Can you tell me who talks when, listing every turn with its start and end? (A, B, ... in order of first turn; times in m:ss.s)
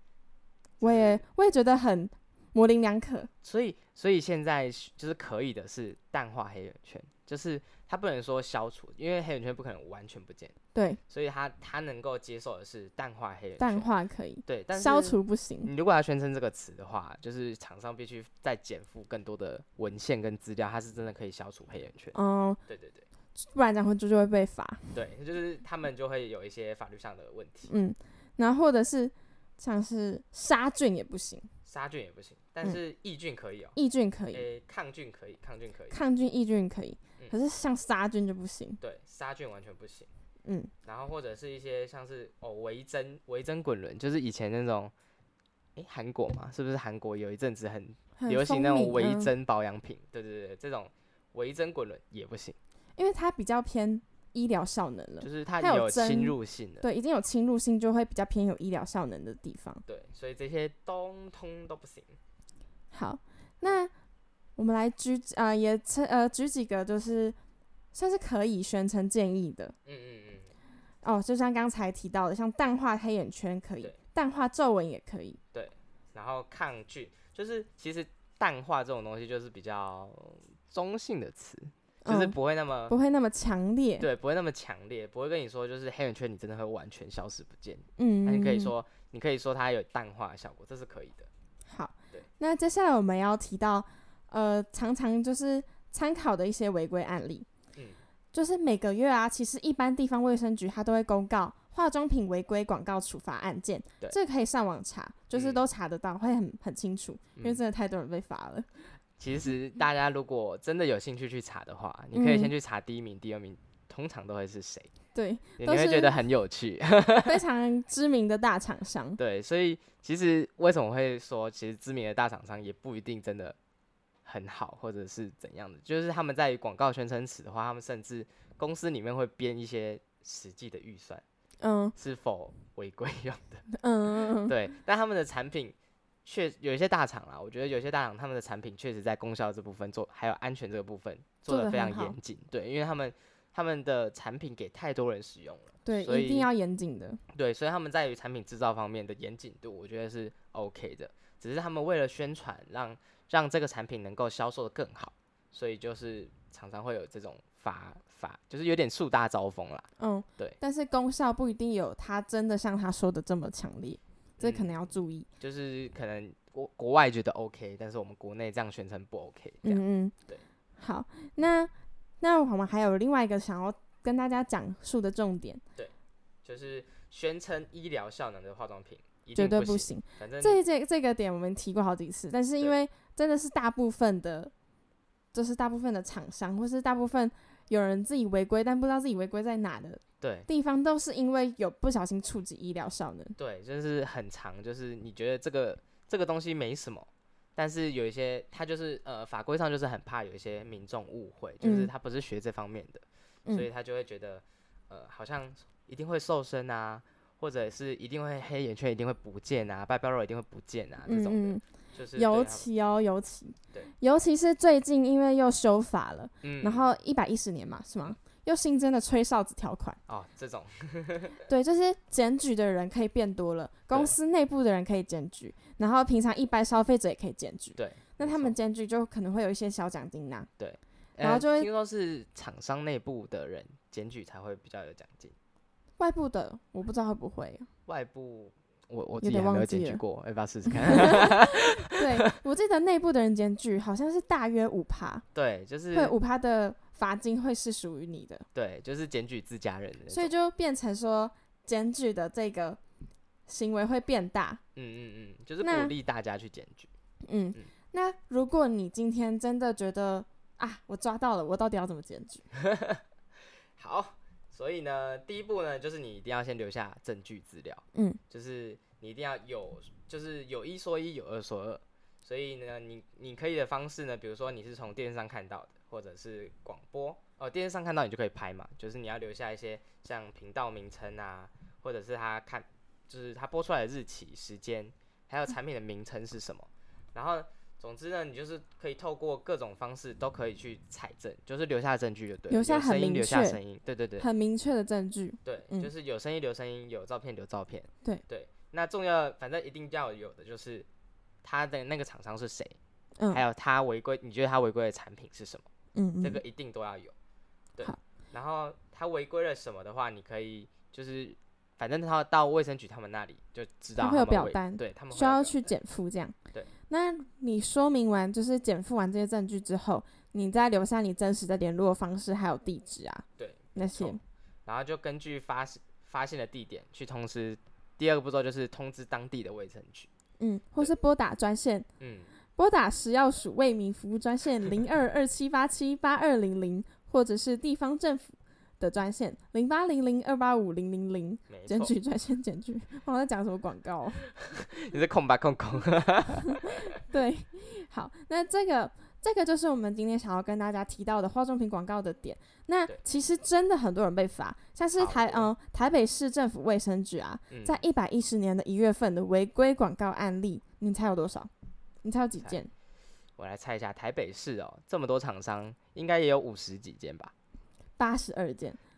0:00.8-0:03.3 A
0:00.8-0:01.2 B
0:03.4-0:10.5 B
0:10.7-0:11.0 A
0:11.1-0:13.9 B
0:13.6-0:15.7 A
0:14.4-0:22.2 B
0:22.1-0:22.6 A
0:22.7-0:23.0 B
0:23.4-0:25.0 A
0:24.9-0:27.7 B
0:27.7-0:31.5 A
0:31.6-0:33.8 B
0:33.7-0:34.4 A
0:34.3-0:36.0 B
0:35.9-0:38.8 A
0:38.8-0:40.1 B
0:40.4-0:40.7 A
0:40.8-0:44.9 B
0:45.8-0:52.6 B
0:48.2-0:49.3 A
0:53.0-0:59.8 A
0:55.2-0:56.8 B
0:59.9-1:02.2 B
1:02.9-1:03.9 A
1:04.6-1:07.4 A
1:07.9-1:09.7 A
1:09.8-1:10.5 B
1:11.0-1:15.4 A
1:15.5-1:22.9 B
1:22.0-1:22.4 A
1:22.9-1:24.1 A
1:24.0-1:31.3 B
1:28.0-1:28.7 A
1:31.7-1:37.4 A
1:37.7-1:38.0 B
1:38.3-1:48.7 A
1:45.3-1:45.7 B
1:49.2-1:54.9 B
1:52.1-1:52.5 A
1:55.1-1:56.2 A
1:55.6-1:57.4 B
1:57.2-1:59.2 A
1:59.2-2:03.6 B
2:04.2-2:11.2 B
2:11.6-2:12.0 A
2:12.0-2:13.6 B
2:13.7-2:14.5 A
2:14.2-2:15.7 B
2:16.2-2:26.5 B
2:21.5-2:22.1 A
2:25.8-2:27.2 A
2:27.3-2:39.9 B
2:40.0-2:45.3 A
2:44.4-2:44.7 B
2:45.4-2:50.4 B
2:49.6-2:50.1 A
2:50.8-2:55.6 A
2:56.4-3:00.6 B
2:59.4-3:04.5 A
3:05.3-3:13.4 A
3:10.2-3:10.5 B
3:13.4-3:32.7 B
3:21.6-3:21.9 A
3:31.1-3:40.0 A
3:36.4-3:36.9 B
3:40.1-3:41.4 B
3:41.5-3:50.5 A
3:43.9-3:44.2 B
3:47.8-3:48.6 B
3:50.6-3:55.3 B
3:51.2-3:51.7 A
3:56.0-3:57.7 A
3:57.9-4:02.3 B
3:59.2-4:00.0 A
4:00.7-4:05.2 A
4:05.3-4:06.1 B
4:05.9-4:08.4 A
4:08.5-4:10.3 B
4:10.1-4:12.8 A
4:13.5-4:14.6 A
4:14.8-4:16.9 B
4:15.6-4:15.9 A
4:17.2-4:22.4 A
4:22.6-4:23.0 B
4:23.8-4:54.3 B
4:27.9-4:28.2 A
4:52.5-4:53.6 A
4:54.2-4:55.9 A
4:55.4-5:00.9 B
5:01.4-5:02.8 B
5:03.3-5:05.7 B
5:05.9-5:06.4 A
5:06.2-5:07.1 B
5:07.8-5:15.6 B
5:14.0-5:16.3 A
5:16.9-5:24.2 A
5:23.4-5:30.1 B
5:30.4-5:31.9 A
5:32.0-5:32.3 B
5:32.6-5:44.2 A
5:41.5-5:41.9 B
5:44.4-5:46.9 B
5:47.0-6:01.5 A
5:55.0-5:55.5 B
5:57.5-5:57.8 B
6:02.0-6:02.7 A
6:03.4-6:07.3 B
6:08.0-6:08.8 A